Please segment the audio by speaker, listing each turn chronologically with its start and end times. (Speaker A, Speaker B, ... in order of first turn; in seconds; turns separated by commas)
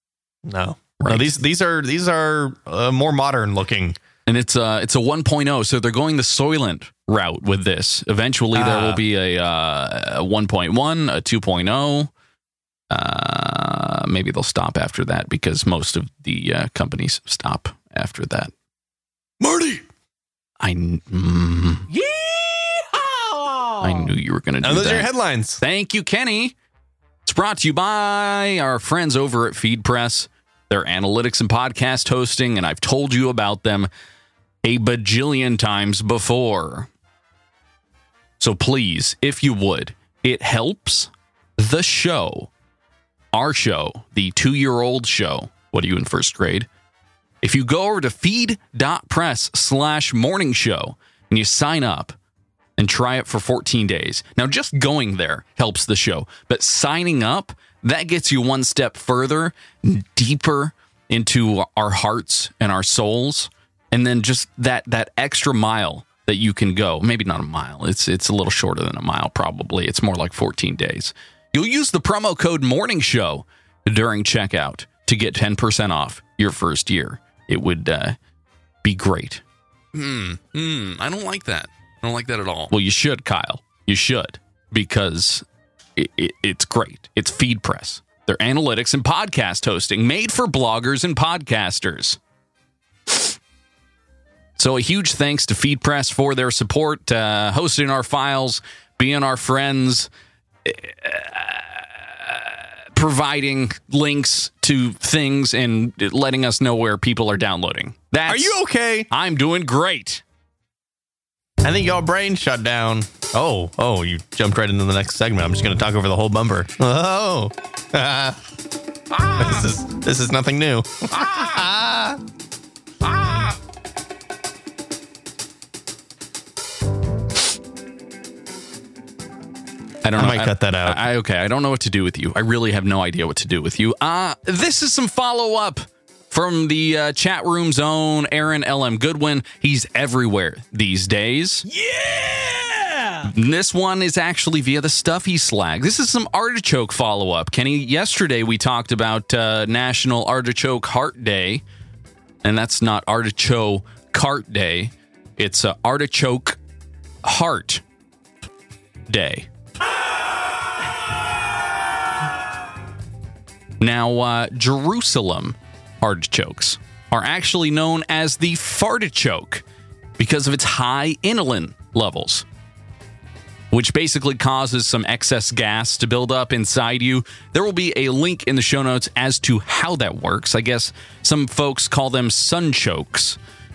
Speaker A: 0.4-4.0, Speaker B: 1.0-1.3, Speaker B: 4.2-12.1, Speaker A: 8.5-9.0, Speaker B: 12.9-18.5, Speaker A: 19.4-19.9, Speaker B: 20.6-21.9, Speaker A: 21.9-23.0, Speaker B: 23.8-25.1, Speaker A: 24.6-25.6, Speaker B: 25.6-26.5, Speaker B: 27.2-33.9, Speaker B: 34.6-36.9, Speaker B: 38.4-42.5, Speaker B: 43.3-46.7, Speaker B: 47.4-52.1, Speaker B: 52.8-78.2, Speaker B: 78.8-79.4, Speaker B: 79.9-85.4, Speaker B: 86.0-92.2, Speaker B: 94.6-100.1, Speaker B: 100.6-110.2, Speaker A: 108.3-109.1, Speaker A: 111.6-118.4, Speaker A: 119.3-122.2, Speaker B: 130.0-141.7, Speaker A: 130.2-131.0, Speaker B: 143.2-151.6, Speaker B: 152.4-156.6, Speaker B: 157.2-157.8, Speaker B: 159.1-159.5, Speaker B: 163.8-169.6, Speaker B: 170.2-172.4, Speaker B: 173.7-183.4